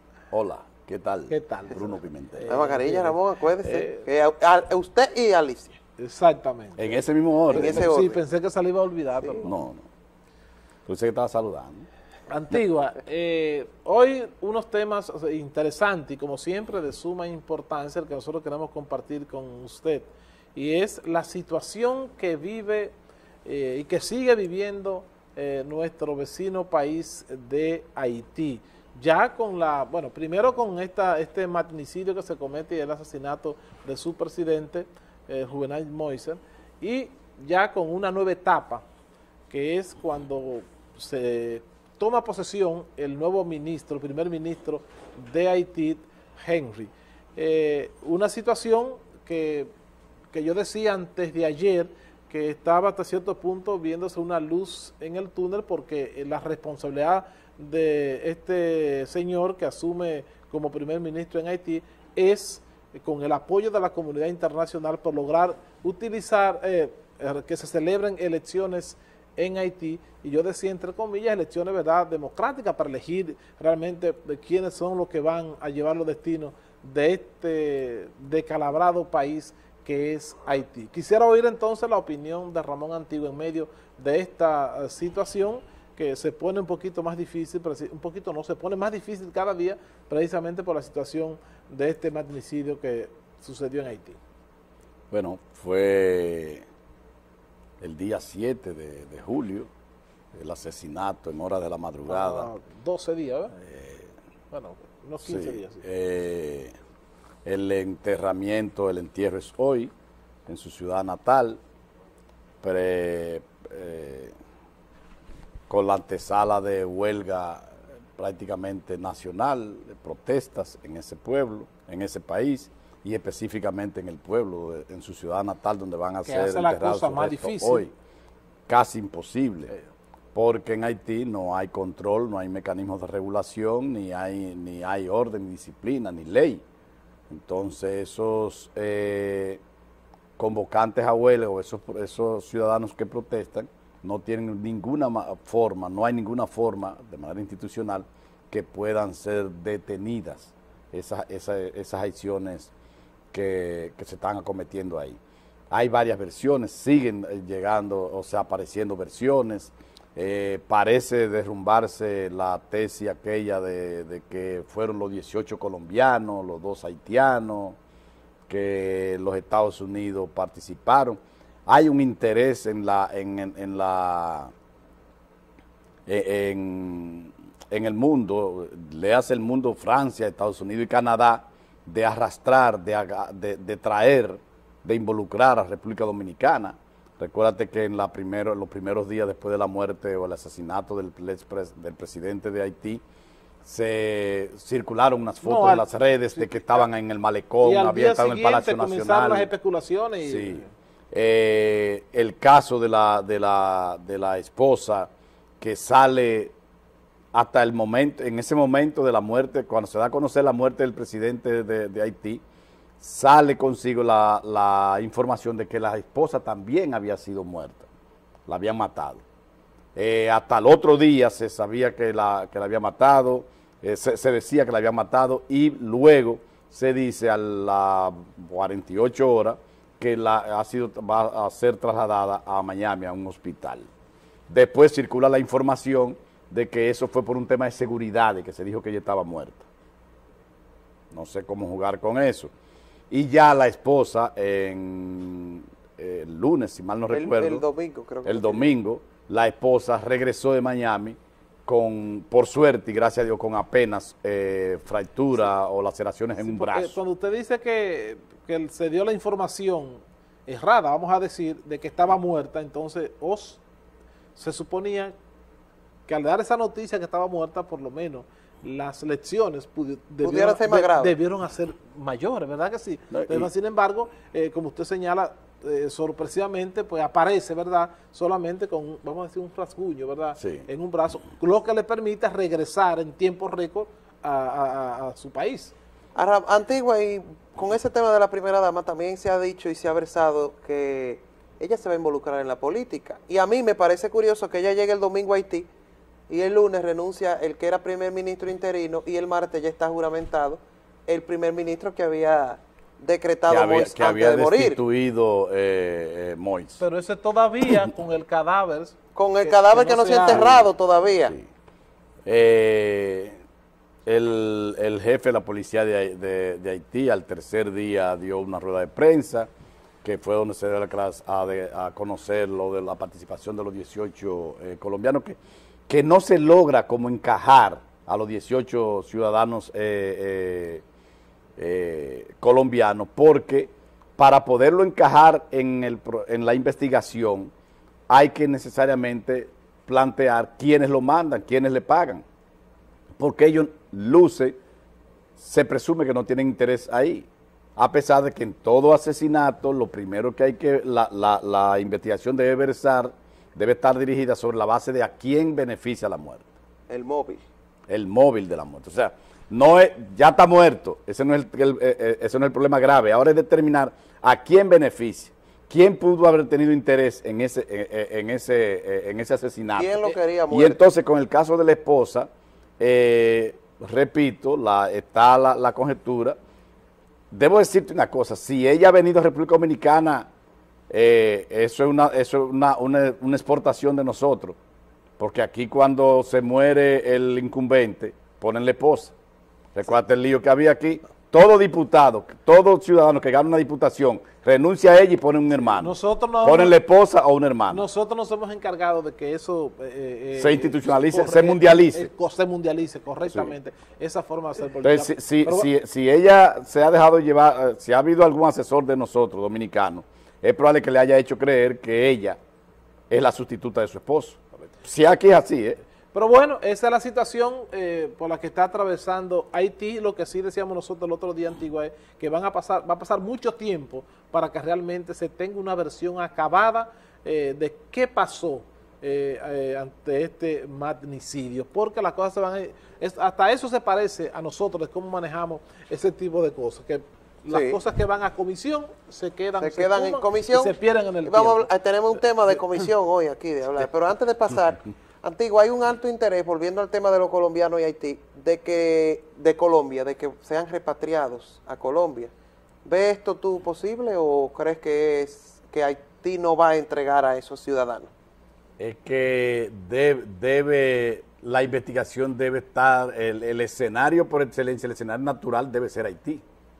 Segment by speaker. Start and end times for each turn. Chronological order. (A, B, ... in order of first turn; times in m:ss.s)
0:00.3-0:02.5 A
0:01.3-0:04.0 B
0:02.5-0:05.8 C
0:06.0-0:07.0 B
0:06.8-0:07.9 A
0:07.5-0:08.2 C
0:07.5-0:09.5 B
0:09.4-0:09.9 A
0:10.8-0:11.9 A
0:12.3-0:22.9 B
0:23.4-0:38.8 B
0:39.5-0:49.7 B
0:50.3-1:34.2 B
1:35.1-1:36.6 A
1:37.8-1:39.7 A
1:40.3-1:42.5 A
1:42.1-1:43.6 B
1:43.6-1:44.1 A
1:44.5-1:45.8 B
1:45.2-1:46.7 A
1:47.4-1:49.9 A
1:50.5-1:51.6 A
1:52.6-1:54.3 A
1:55.7-2:07.9 A
2:06.2-2:07.9 B
2:08.7-2:09.7 A
2:10.3-2:16.6 A
2:17.3-2:19.6 A
2:20.4-2:32.7 A
2:33.3-2:35.2 A
2:35.7-2:47.8 A
2:48.5-2:54.5 A
2:56.1-3:13.0 A
3:13.6-3:19.5 A
3:15.4-3:16.8 B
3:17.6-3:20.7 B
3:20.2-3:25.1 A
3:25.6-3:26.5 A
3:27.3-3:32.4 A
3:33.0-3:37.8 A
3:38.5-3:39.2 A
3:40.0-3:53.9 A
3:54.5-3:59.6 A
4:01.1-4:02.5 A
4:03.1-4:07.6 A
4:07.1-4:08.7 C
4:08.2-4:17.0 A
4:16.4-4:23.6 B
4:24.4-4:25.1 B
4:26.1-4:45.7 B
4:30.2-4:31.1 C
4:33.1-4:33.5 A
4:40.4-4:40.6 A
4:46.1-4:55.7 C
4:56.3-5:04.8 C
5:03.5-5:06.8 A
5:06.8-5:10.5 B
5:09.2-5:11.4 C
5:10.3-5:10.7 A
5:12.2-5:13.4 A
5:14.0-5:19.5 A
5:20.0-5:25.4 A
5:25.9-5:30.8 A
5:31.6-5:37.5 A
5:38.1-5:42.2 A
5:43.2-5:44.6 A
5:45.4-5:56.5 A
5:56.9-5:57.4 C
5:57.9-6:12.3 A
6:09.8-6:10.8 C
6:12.8-6:16.4 A
6:17.3-6:20.3 A
6:20.9-6:24.6 A
6:25.2-6:29.1 A
6:29.7-6:37.8 A
6:35.8-6:36.7 B
6:37.7-6:45.7 B
6:40.3-6:42.1 A
6:43.3-6:43.5 A
6:44.8-6:52.4 A
6:53.1-6:55.8 A
6:56.1-7:21.7 B
7:17.5-7:17.8 C
7:19.6-7:32.3 C
7:32.8-7:38.1 C
7:38.8-7:46.4 A